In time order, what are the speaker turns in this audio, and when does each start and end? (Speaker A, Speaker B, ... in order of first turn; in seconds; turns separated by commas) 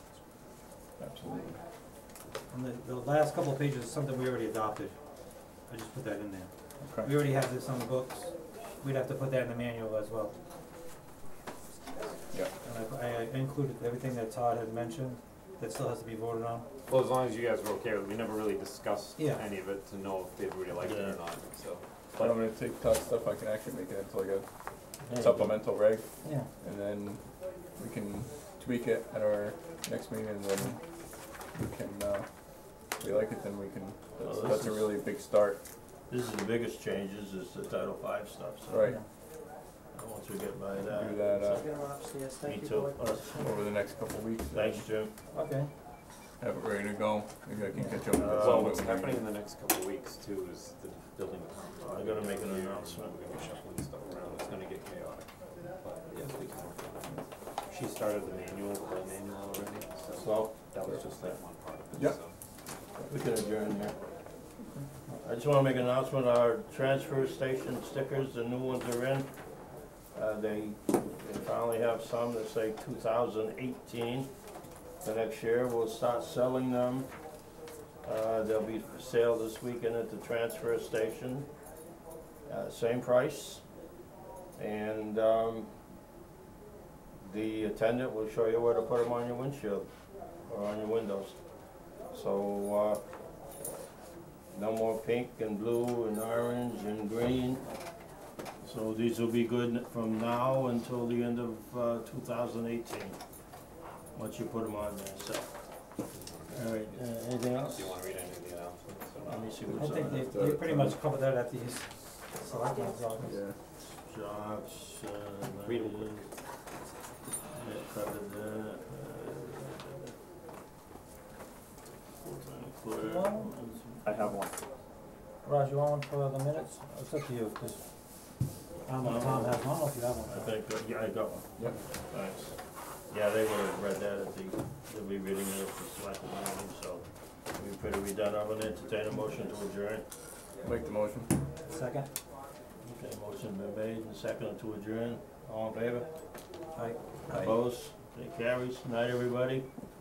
Speaker A: 1.0-1.6, Speaker B: 2.5-5.0, Speaker B: 5.6-10.3, Speaker A: 6.8-7.1, Speaker B: 12.6-16.7, Speaker C: 16.9-22.4, Speaker B: 19.2-19.4, Speaker D: 20.8-21.2, Speaker A: 22.2-35.6, Speaker D: 25.0-25.6, Speaker B: 26.2-26.5, Speaker D: 34.2-34.9, Speaker D: 36.1-38.9, Speaker A: 38.7-39.0, Speaker D: 39.9-41.7, Speaker A: 40.9-41.6, Speaker B: 41.5-43.4, Speaker D: 42.4-43.5, Speaker A: 43.4-44.9, Speaker D: 44.5-45.1, Speaker B: 45.3-45.7, Speaker A: 46.4-49.2, Speaker B: 47.7-48.0, Speaker D: 48.2-48.8, Speaker C: 48.3-62.3, Speaker D: 51.8-53.1, Speaker D: 60.1-61.4, Speaker D: 63.1-64.0, Speaker D: 65.2-69.3, Speaker D: 70.1-74.3, Speaker D: 75.0-77.1, Speaker D: 78.0-81.5, Speaker D: 82.5-83.6, Speaker D: 84.5-85.7, Speaker D: 87.2-89.9, Speaker D: 90.5-91.4, Speaker D: 92.1-93.0, Speaker D: 94.5-97.6, Speaker D: 98.6-103.2, Speaker D: 104.1-105.5, Speaker C: 106.0-109.6, Speaker D: 106.5-108.0, Speaker D: 109.2-110.3, Speaker B: 109.7-113.4, Speaker A: 109.8-111.0, Speaker A: 113.2-113.6, Speaker D: 113.8-116.3, Speaker C: 115.5-116.2, Speaker D: 117.5-120.2, Speaker D: 122.2-124.1, Speaker B: 123.0-123.5, Speaker C: 124.0-124.5, Speaker B: 125.4-127.8, Speaker B: 128.8-130.5, Speaker D: 129.0-129.7, Speaker D: 130.2-132.6, Speaker D: 133.1-140.0, Speaker A: 140.6-141.3, Speaker B: 141.7-142.1, Speaker D: 142.8-146.1, Speaker B: 146.7-147.5, Speaker D: 147.3-149.7